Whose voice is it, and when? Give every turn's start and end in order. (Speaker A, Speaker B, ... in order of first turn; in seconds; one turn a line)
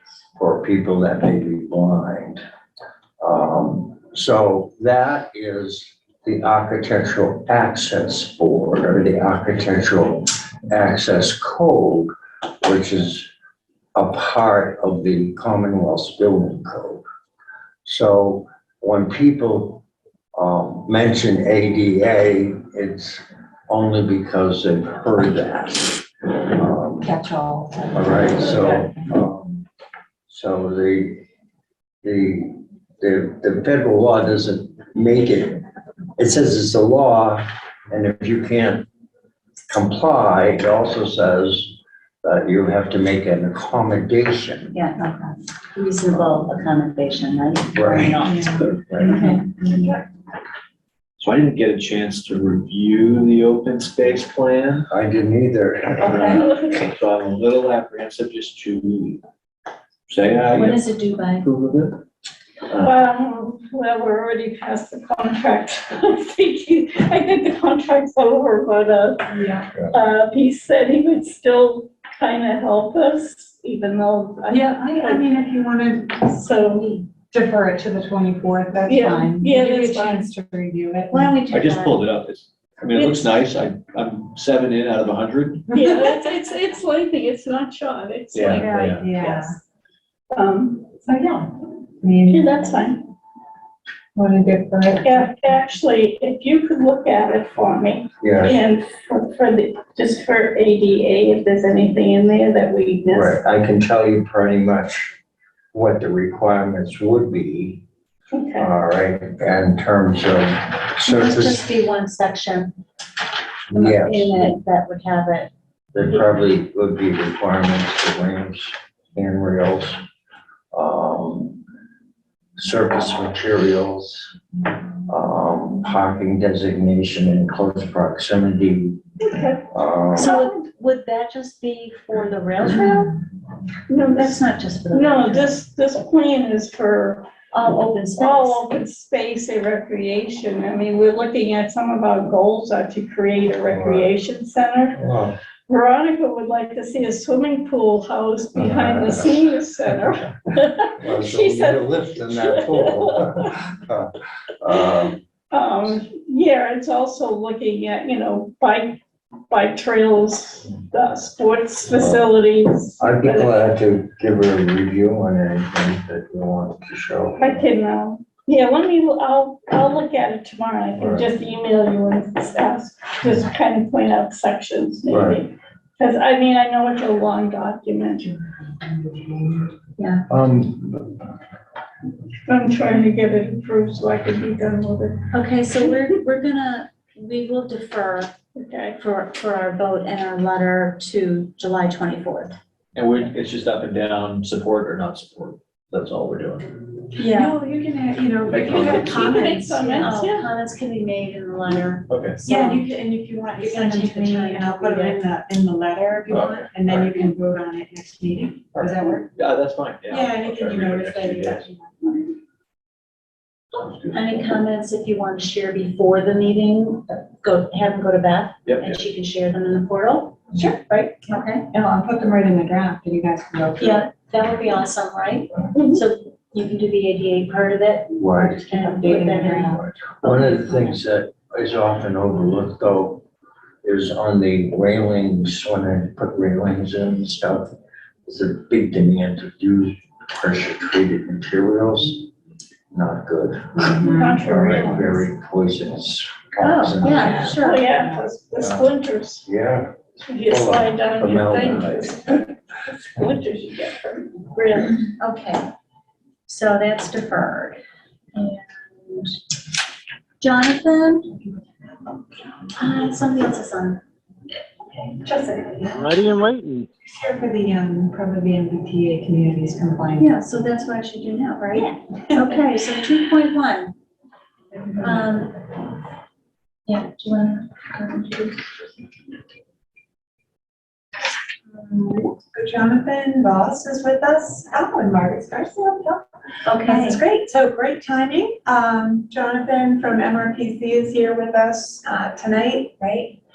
Speaker A: 0.4-2.4
Speaker A: 3.2-12.1
Speaker A: 12.6-13.3
Speaker A: 13.9-17.0
Speaker A: 17.8-19.8
Speaker A: 20.3-27.2
Speaker B: 27.0-28.8
Speaker A: 27.9-29.6
Speaker A: 30.3-31.2
Speaker A: 32.0-35.6
Speaker A: 36.2-38.9
Speaker A: 39.7-44.8
Speaker C: 44.7-45.0
Speaker B: 45.0-45.3
Speaker C: 45.7-49.4
Speaker A: 47.7-49.2
Speaker B: 48.2-49.9
Speaker D: 51.2-54.8
Speaker A: 54.9-56.4
Speaker D: 56.0-59.2
Speaker C: 56.0-56.4
Speaker E: 56.4-56.8
Speaker D: 60.1-60.8
Speaker C: 60.5-61.5
Speaker D: 61.4-62.0
Speaker E: 62.8-69.3
Speaker B: 69.3-69.7
Speaker E: 69.9-75.3
Speaker B: 74.5-81.3
Speaker E: 76.3-76.9
Speaker E: 78.9-80.3
Speaker C: 81.1-82.1
Speaker D: 81.5-85.8
Speaker E: 82.9-83.3
Speaker E: 85.7-88.7
Speaker D: 88.3-89.2
Speaker C: 88.6-89.6
Speaker B: 88.6-89.6
Speaker E: 90.3-90.9
Speaker B: 91.0-92.4
Speaker E: 92.3-93.1
Speaker B: 94.1-95.2
Speaker E: 95.0-103.4
Speaker A: 98.2-98.6
Speaker A: 103.1-105.1
Speaker A: 105.7-107.8
Speaker E: 108.3-108.7
Speaker A: 108.5-111.6
Speaker C: 111.0-112.7
Speaker A: 113.7-114.5
Speaker C: 113.7-115.5
Speaker A: 115.9-120.0
Speaker A: 120.7-121.6
Speaker A: 122.6-124.3
Speaker A: 125.1-129.0
Speaker E: 129.2-129.6
Speaker A: 129.7-130.4
Speaker C: 130.1-133.2
Speaker E: 130.2-130.5
Speaker E: 133.9-137.3
Speaker C: 134.0-135.6
Speaker C: 137.5-138.6
Speaker E: 138.2-145.0
Speaker A: 143.7-144.1
Speaker A: 145.0-145.4
Speaker E: 145.7-153.5
Speaker A: 148.5-150.3
Speaker A: 150.8-155.2
Speaker E: 155.5-163.6
Speaker A: 161.9-162.3
Speaker A: 163.0-167.6
Speaker E: 167.4-178.3
Speaker A: 171.0-171.3
Speaker A: 175.1-175.4
Speaker B: 178.7-179.7
Speaker C: 180.0-180.2
Speaker A: 180.3-181.2
Speaker E: 182.5-185.3
Speaker C: 185.3-188.3
Speaker E: 188.6-189.0
Speaker C: 189.0-192.5
Speaker D: 192.9-196.7
Speaker B: 197.2-200.2
Speaker C: 197.2-197.6
Speaker D: 198.4-199.5
Speaker E: 198.8-200.5
Speaker C: 199.3-202.9
Speaker D: 202.1-202.4
Speaker B: 202.4-209.3
Speaker C: 203.6-205.2
Speaker D: 206.3-207.2
Speaker D: 208.7-211.7
Speaker B: 210.1-212.3
Speaker D: 213.7-214.5
Speaker C: 214.1-221.7
Speaker D: 218.7-219.1
Speaker B: 220.5-221.2
Speaker B: 221.7-224.1
Speaker C: 223.8-231.0
Speaker E: 225.7-226.0
Speaker A: 228.1-228.7
Speaker B: 228.6-229.8
Speaker A: 229.7-233.2
Speaker A: 233.8-237.7
Speaker A: 238.2-242.3
Speaker A: 242.9-247.6
Speaker B: 243.7-244.5
Speaker E: 244.0-245.2
Speaker C: 246.6-247.9
Speaker E: 247.3-249.4
Speaker A: 248.6-248.9
Speaker A: 249.4-252.2
Speaker E: 250.3-254.4
Speaker C: 254.5-255.6
Speaker C: 256.4-257.8
Speaker C: 258.3-259.3
Speaker C: 260.4-261.3
Speaker C: 262.7-264.0
Speaker B: 265.2-266.1
Speaker A: 266.3-266.7
Speaker B: 267.0-270.3
Speaker C: 270.2-273.9
Speaker C: 275.0-275.7
Speaker C: 276.9-278.8
Speaker B: 281.7-286.2
Speaker C: 286.6-287.2
Speaker B: 286.8-293.4